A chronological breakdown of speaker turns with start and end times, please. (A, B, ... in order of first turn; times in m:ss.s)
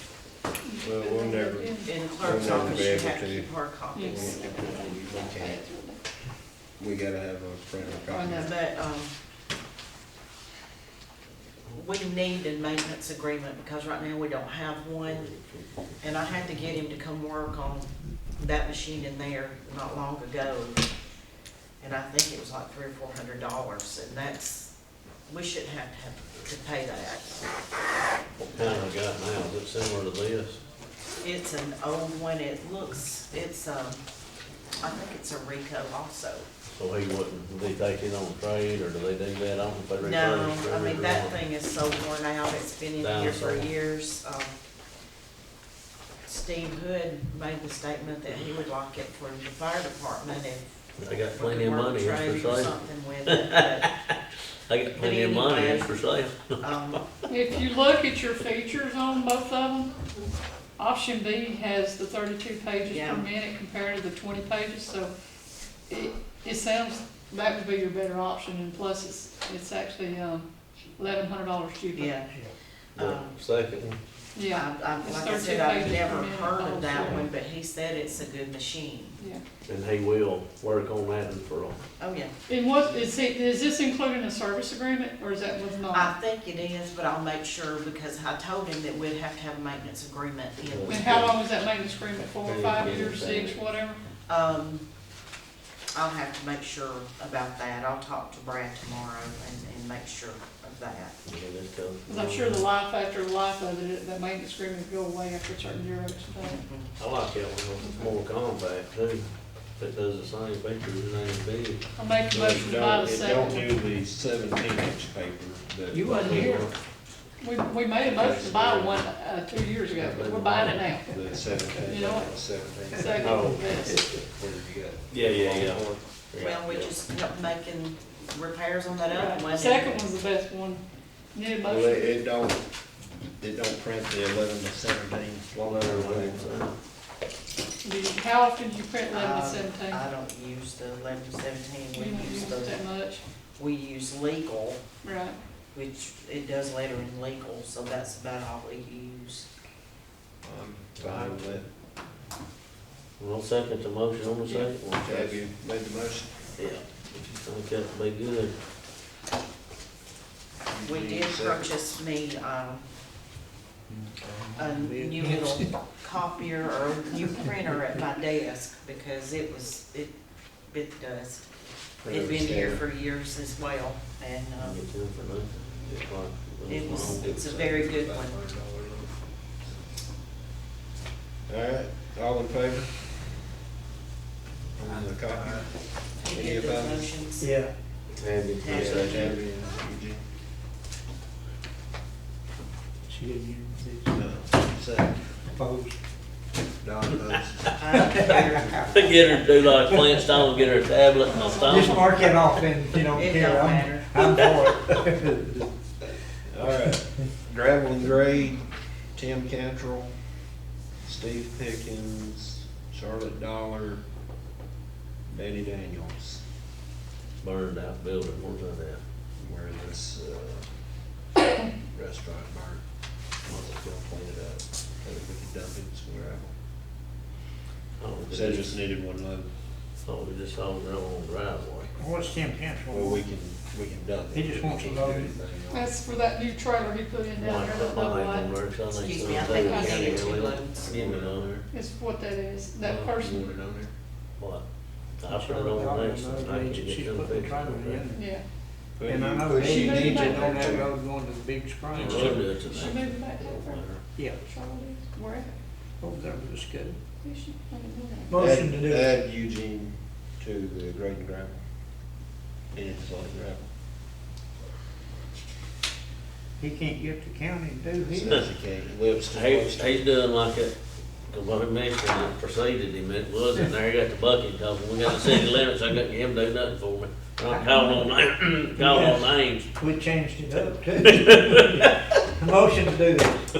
0:00.6-0:02.7 A
0:00.8-0:05.6 B
0:01.8-0:04.5 C
0:03.9-0:06.0 A
0:06.8-0:08.5 B
0:08.0-0:08.5 A
0:08.3-0:09.1 C
0:11.7-0:15.3 C
0:15.0-0:16.3 D
0:16.0-0:20.8 C
0:21.8-0:24.7 C
0:25.3-0:27.4 C
0:28.4-0:30.6 D
0:28.5-0:28.9 C
0:31.2-0:34.0 C
0:34.8-0:36.4 C
0:36.7-0:41.4 D
0:40.0-0:44.6 C
0:43.0-0:43.7 D
0:46.3-0:53.9 C
0:51.0-0:52.7 D
0:53.3-0:54.1 D
0:54.7-0:56.6 D
0:54.9-0:56.0 C
0:56.6-0:57.0 C
0:57.3-1:00.0 A
1:00.8-1:05.1 A
1:02.9-1:03.3 C
1:05.9-1:12.1 A
1:11.9-1:12.4 C
1:13.0-1:13.4 C
1:13.0-1:14.0 D
1:14.3-1:17.2 A
1:14.5-1:19.2 C
1:19.7-1:21.8 D
1:22.0-1:22.3 C
1:22.5-1:26.1 A
1:25.9-1:31.2 C
1:30.7-1:31.3 D
1:30.9-1:34.0 A
1:32.4-1:33.6 D
1:34.3-1:34.9 C
1:35.9-1:41.1 C
1:41.2-1:42.6 D
1:42.1-1:46.6 A
1:46.4-1:46.9 C
1:47.0-1:49.2 D
1:47.8-1:48.1 A
1:49.8-1:51.8 D
1:52.0-1:53.7 A
1:52.3-1:56.7 B
1:55.9-1:56.7 E
1:56.1-1:56.7 D
1:57.4-2:01.2 A
1:58.2-1:58.8 D
1:58.2-1:58.9 B
2:00.0-2:00.8 D
2:01.1-2:03.6 B
2:01.8-2:02.3 A
2:02.9-2:04.0 A
2:03.2-2:03.6 D
2:03.9-2:04.2 E
2:04.2-2:06.0 B
2:05.1-2:06.9 D
2:06.4-2:10.0 C
2:09.1-2:10.8 A
2:11.3-2:12.2 A
2:11.6-2:12.7 B
2:13.4-2:16.4 B
2:15.6-2:16.8 D
2:17.8-2:20.0 A
2:19.1-2:22.8 C
2:21.9-2:23.2 A
2:23.6-2:24.8 C
2:25.0-2:25.4 A
2:25.7-2:29.4 C
2:30.4-2:31.7 B
2:31.0-2:31.6 D
2:33.2-2:35.4 D
2:34.4-2:34.7 A
2:34.9-2:36.4 B
2:36.6-2:38.6 D
2:40.7-2:41.7 B
2:40.8-2:42.9 C
2:43.9-2:45.7 E
2:44.6-2:50.1 C
2:50.7-2:51.4 C
2:52.0-2:52.8 B
2:52.1-2:54.8 C
2:54.6-2:57.3 D
2:55.9-2:56.1 B
2:56.7-2:58.4 C
2:56.8-2:59.2 B
3:01.5-3:03.0 B
3:04.8-3:05.7 B
3:06.2-3:07.5 C
3:06.2-3:07.1 B
3:07.4-3:07.7 E
3:08.1-3:09.4 D
3:08.6-3:09.3 C
3:08.7-3:10.2 B
3:13.1-3:14.2 E
3:14.1-3:15.2 B
3:15.5-3:15.9 E
3:16.8-3:18.4 B
3:17.8-3:19.2 C
3:18.0-3:19.1 E
3:18.3-3:22.0 D
3:19.9-3:20.2 E
3:21.2-3:22.3 A
3:21.6-3:25.7 E
3:23.1-3:24.2 C
3:26.5-3:30.1 B
3:31.0-3:34.0 B
3:35.3-3:36.4 B
3:37.4-3:39.0 D
3:39.4-3:40.7 B
3:41.8-3:42.8 B
3:43.4-3:46.5 B
3:48.0-3:48.8 D
3:48.3-3:49.5 B
3:50.0-3:51.9 D
3:52.0-3:53.2 E
3:52.9-3:55.9 B
3:54.3-3:55.3 E
3:55.7-3:58.5 A
3:57.4-4:01.5 D
3:58.9-4:00.9 C
3:59.3-4:00.3 A
4:00.8-4:01.7 B
4:01.7-4:03.4 A
4:02.8-4:03.1 D
4:03.2-4:03.9 B
4:04.4-4:04.6 D
4:05.2-4:08.0 D
4:05.3-4:08.2 E
4:08.2-4:08.4 A
4:09.0-4:10.9 B
4:09.1-4:12.4 E
4:09.6-4:10.8 A
4:11.9-4:14.0 D
4:12.0-4:12.4 B
4:12.3-4:15.6 A
4:16.0-4:17.0 E
4:17.2-4:18.4 A
4:18.3-4:19.1 E
4:18.3-4:21.6 B
4:22.7-4:23.7 B
4:26.6-4:28.3 E
4:28.0-4:30.1 B
4:29.3-4:30.8 D
4:31.3-4:39.7 D
4:37.6-4:37.9 E
4:38.8-4:43.4 E
4:41.0-4:42.2 D